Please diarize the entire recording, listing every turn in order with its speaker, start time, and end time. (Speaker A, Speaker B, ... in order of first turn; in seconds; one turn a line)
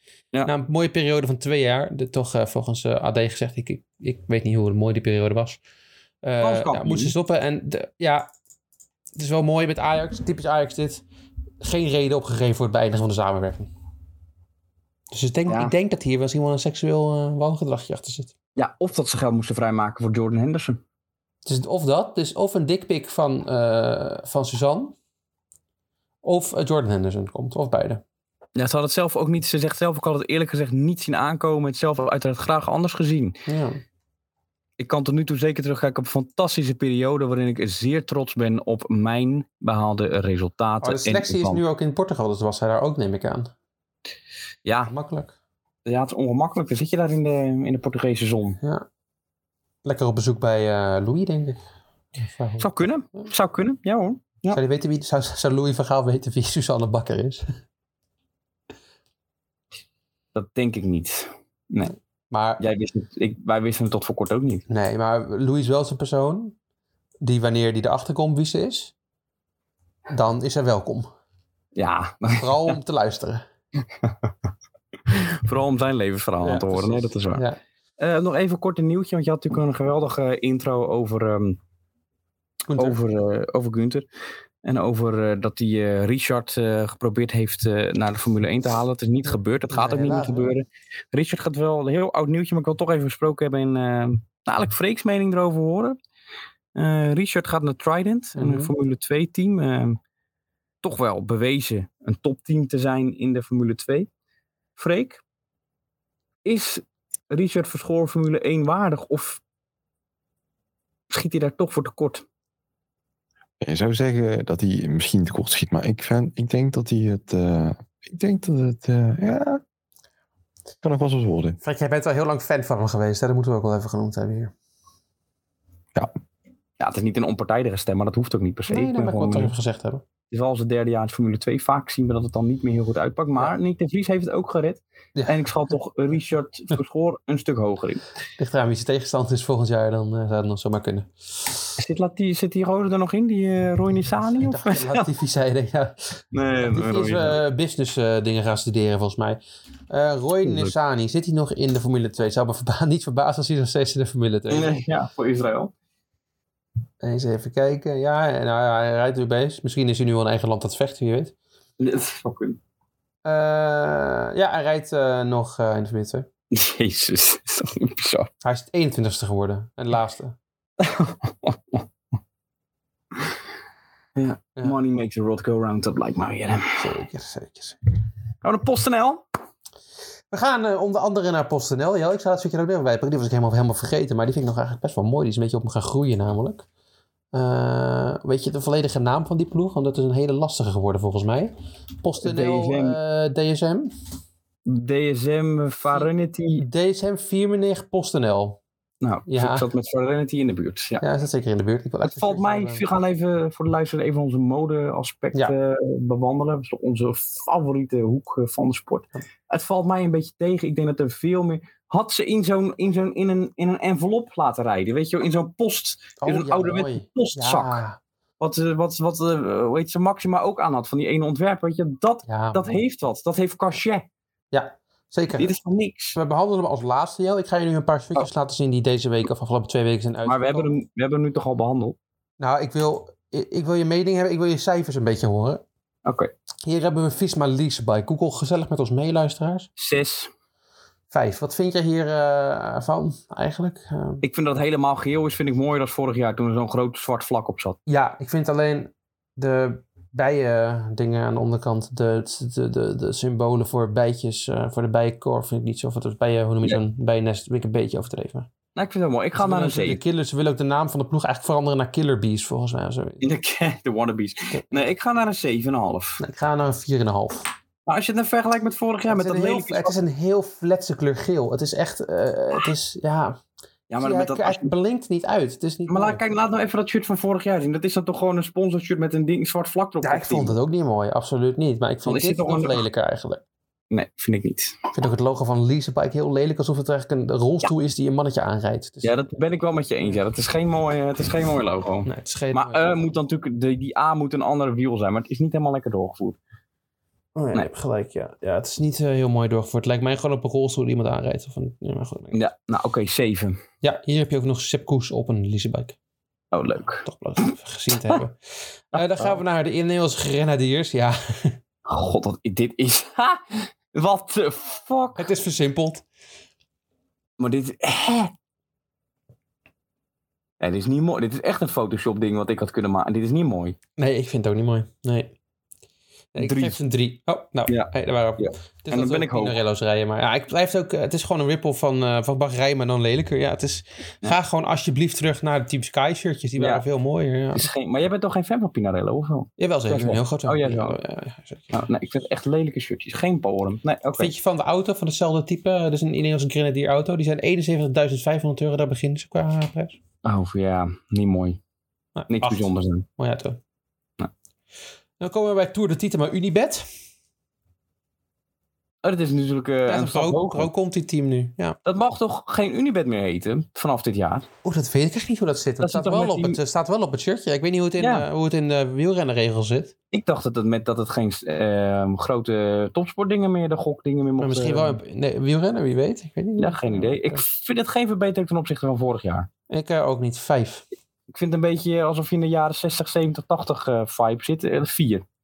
Speaker A: 0.4-5.6
Speaker A: 6.2-8.3
Speaker B: 6.4-7.1
Speaker A: 9.1-11.0
Speaker A: 11.6-13.7
Speaker A: 15.1-18.3
Speaker B: 15.5-15.7
Speaker B: 18.6-20.8
Speaker A: 21.4-24.9
Speaker A: 26.2-28.0
Speaker B: 28.6-33.4
Speaker A: 33.5-33.8
Speaker B: 34.8-41.6
Speaker A: 40.8-43.5
Speaker B: 44.6-44.9
Speaker A: 44.9-45.3
Speaker B: 45.9-48.6
Speaker A: 48.6-48.9
Speaker A: 49.8-51.6
Speaker A: 52.2-53.3
Speaker B: 52.6-54.6
Speaker A: 54.5-57.4
Speaker B: 60.3-61.9
Speaker A: 62.3-62.6
Speaker B: 62.6-64.7
Speaker A: 64.7-66.5
Speaker A: 67.2-68.9
Speaker A: 70.1-71.1
Speaker B: 71.7-72.8
Speaker A: 72.4-73.5
Speaker B: 75.1-77.4
Speaker A: 76.4-77.6
Speaker B: 78.0-81.6
Speaker A: 82.7-83.0
Speaker B: 82.8-84.0
Speaker B: 84.6-96.0
Speaker A: 89.7-90.5
Speaker B: 96.7-100.0
Speaker A: 98.3-98.7
Speaker B: 100.8-104.1
Speaker B: 104.8-105.2
Speaker B: 106.4-109.4
Speaker B: 111.1-112.2
Speaker C: 113.6-119.6
Speaker C: 120.8-121.6
Speaker A: 121.6-124.5
Speaker B: 126.8-129.5
Speaker A: 128.7-130.0
Speaker B: 130.3-138.0
Speaker A: 138.4-141.5
Speaker B: 141.8-145.1
Speaker A: 144.4-154.7
Speaker B: 146.3-147.4
Speaker B: 150.4-150.7
Speaker B: 154.5-155.7
Speaker A: 157.0-161.3
Speaker B: 161.8-162.6
Speaker A: 163.2-166.3
Speaker B: 166.5-168.3
Speaker A: 168.4-170.3
Speaker B: 170.8-171.8
Speaker B: 174.2-176.8
Speaker A: 176.8-177.8
Speaker B: 178.4-179.2
Speaker A: 180.3-186.7
Speaker A: 187.3-193.9
Speaker B: 192.2-193.0
Speaker B: 194.7-196.6
Speaker A: 195.9-198.6
Speaker B: 199.0-201.0
Speaker A: 199.3-199.6
Speaker A: 201.0-202.8
Speaker B: 202.0-217.8
Speaker A: 216.2-218.0
Speaker B: 218.4-224.1
Speaker A: 222.3-222.6
Speaker A: 224.5-225.5
Speaker B: 225.4-226.2
Speaker A: 226.1-230.7
Speaker B: 230.2-232.0
Speaker A: 232.4-235.6
Speaker B: 236.1-236.3
Speaker A: 236.7-239.7
Speaker B: 239.8-240.3
Speaker A: 241.1-244.2
Speaker B: 244.2-247.8
Speaker A: 247.9-258.5
Speaker B: 258.8-260.0
Speaker A: 259.4-263.2
Speaker B: 263.2-266.2
Speaker A: 264.5-264.8
Speaker A: 266.2-267.5
Speaker B: 267.9-269.9
Speaker A: 269.1-273.4
Speaker B: 273.9-274.7
Speaker A: 274.0-276.2
Speaker B: 275.9-280.6
Speaker A: 280.0-283.4
Speaker B: 282.1-282.8
Speaker B: 283.9-284.8
Speaker A: 284.9-289.3
Speaker B: 289.0-296.4
Speaker A: 292.1-292.8
Speaker A: 297.4-302.4
Speaker B: 302.3-303.6
Speaker A: 303.8-305.9
Speaker B: 306.5-307.1
Speaker A: 307.0-308.4
Speaker A: 308.9-311.6
Speaker B: 308.9-309.4
Speaker B: 311.9-315.2
Speaker A: 315.1-316.0
Speaker B: 317.4-318.3
Speaker B: 320.6-323.8
Speaker A: 324.0-325.3
Speaker A: 326.3-337.7
Speaker B: 326.4-326.8
Speaker B: 327.7-329.6
Speaker B: 336.6-336.8
Speaker B: 337.5-341.0
Speaker A: 339.6-341.9
Speaker B: 341.7-344.3
Speaker A: 344.2-350.0
Speaker B: 350.2-351.6
Speaker A: 352.1-353.6
Speaker B: 352.3-353.1
Speaker A: 355.2-356.9
Speaker B: 359.0-360.7
Speaker A: 359.9-361.8
Speaker B: 361.8-364.5
Speaker A: 364.6-369.9
Speaker B: 365.8-366.6
Speaker B: 368.0-368.2
Speaker B: 370.1-375.0
Speaker A: 374.4-377.4
Speaker B: 376.6-379.5
Speaker A: 379.7-380.8
Speaker B: 381.3-385.2